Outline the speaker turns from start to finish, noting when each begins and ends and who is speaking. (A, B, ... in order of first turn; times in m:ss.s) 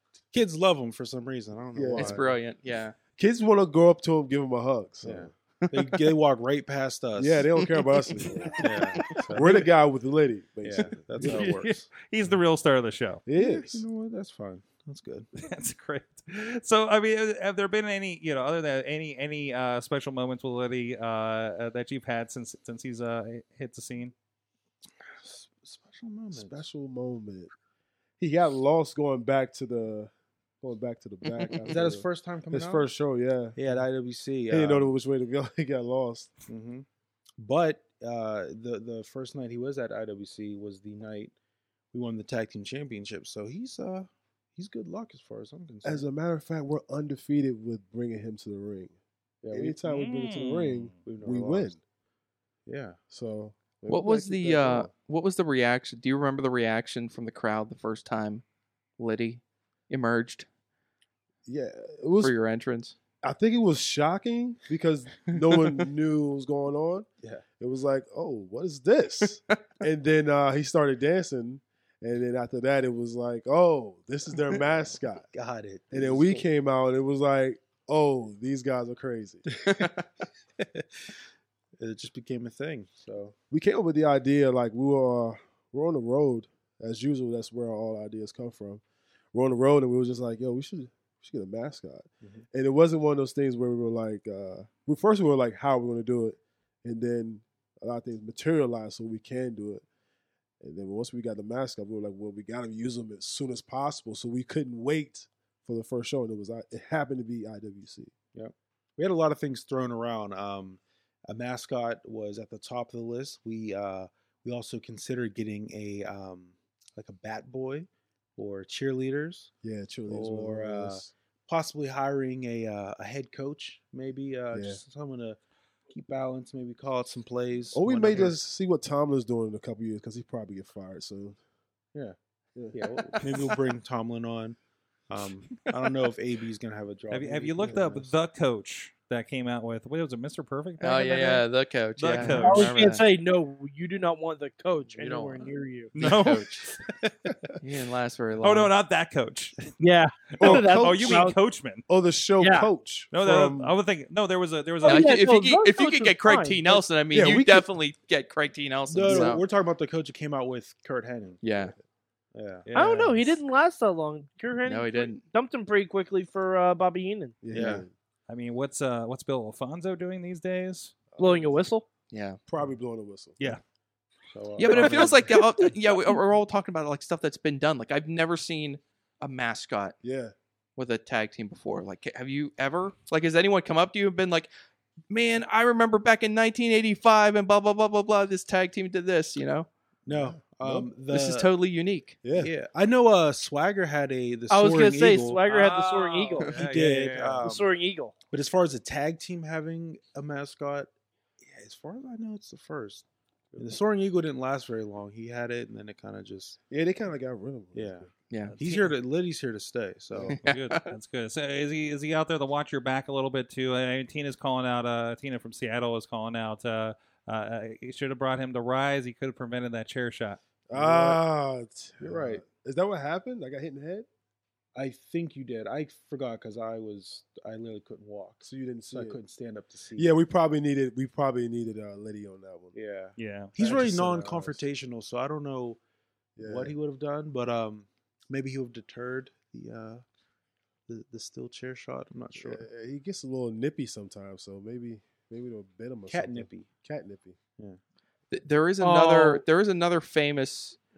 0:00.3-0:02.3 A
0:01.8-0:02.2 B
0:02.0-0:03.0 C
0:03.2-0:05.3 B
0:05.0-0:07.5 A
0:07.2-0:11.5 B
0:08.6-0:09.6 A
0:10.6-0:11.9 A
0:11.2-0:13.2 D
0:13.3-0:13.8 B
0:13.4-0:15.3 A
0:15.4-0:24.1 D
0:25.0-0:26.6 A
0:26.3-0:27.5 B
0:28.2-0:33.6 B
0:31.6-0:32.9 A
0:33.6-0:34.9 A
0:34.5-0:36.4 B
0:36.5-0:36.9 A
0:37.4-0:41.3 A
0:41.9-0:46.1 A
0:45.8-0:49.0 B
0:49.4-0:49.8 A
0:49.5-0:51.8 B
0:49.8-0:51.0 D
0:51.0-0:51.7 A
0:52.7-0:53.0 A
0:53.1-0:54.9 B
0:53.9-0:58.4 C
0:59.0-1:00.4 C
1:01.4-1:02.3 B
1:02.2-1:03.0 C
1:03.2-1:07.1 B
1:05.3-1:05.9 C
1:07.6-1:15.3 B
1:15.3-1:16.4 A
1:15.9-1:19.4 B
1:19.5-1:20.0 A
1:20.6-1:21.1 A
1:21.8-1:23.4 A
1:23.5-1:28.8 B
1:29.3-1:39.8 B
1:40.6-1:48.1 B
1:48.3-1:59.5 A
1:59.6-2:01.1 B
2:00.1-2:05.4 A
2:04.5-2:04.8 B
2:05.9-2:08.4 A
2:07.7-2:11.4 B
2:12.6-2:13.2 B
2:12.7-2:14.6 A
2:15.1-2:18.1 A
2:17.1-2:21.4 D
2:20.8-2:23.0 C
2:22.0-2:23.0 D
2:22.4-2:25.9 E
2:25.0-2:25.4 C
2:26.0-2:26.5 D
2:26.0-2:26.7 C
2:27.6-2:28.7 C
2:28.4-2:31.8 D
2:29.8-2:31.4 E
2:30.4-2:31.3 B
2:31.9-2:33.7 B
2:32.4-2:32.7 E
2:33.1-2:35.1 D
2:34.8-2:36.8 E
2:34.8-2:39.4 C
2:37.1-2:37.7 B
2:38.9-2:41.4 A
2:39.1-2:39.4 B
2:41.4-2:41.8 C
2:42.3-2:42.7 A
2:42.6-2:43.4 D
2:42.7-2:47.4 E
2:44.6-2:45.2 C
2:47.4-2:47.9 B
2:47.5-2:47.9 A
2:48.3-2:50.9 D
2:51.1-2:51.6 B
2:51.2-2:51.9 E
2:52.1-2:52.4 C
2:52.5-2:53.6 B
2:54.3-2:55.4 A
2:54.6-3:00.0 C
2:54.7-2:55.1 D
3:00.0-3:00.3 B
3:00.8-3:04.5 C
3:05.1-3:09.7 C
3:10.1-3:11.5 A
3:10.1-3:10.9 B
3:11.1-3:12.2 C
3:12.2-3:12.5 B
3:12.3-3:15.4 A
3:14.5-3:16.7 E
3:15.4-3:17.4 D
3:16.6-3:17.7 A
3:17.4-3:18.1 E
3:18.3-3:23.0 A
3:23.5-3:23.8 B
3:23.6-3:26.6 A
3:26.7-3:28.1 B
3:27.7-3:30.4 A
3:28.3-3:28.6 C
3:28.5-3:28.9 D
3:30.3-3:30.9 C
3:30.4-3:40.4 D
3:40.7-3:44.1 B
3:40.7-3:41.2 A
3:42.0-3:42.4 A
3:44.8-3:50.1 A
3:48.4-3:49.2 B
3:50.0-3:52.8 B
3:52.7-3:55.8 A
3:53.2-3:53.5 D
3:53.6-3:54.6 B
3:56.4-3:56.7 B
3:56.4-4:00.0 A
4:00.9-4:02.6 A
4:02.4-4:07.4 B
4:06.1-4:06.7 A
4:08.3-4:10.8 C
4:08.8-4:09.4 E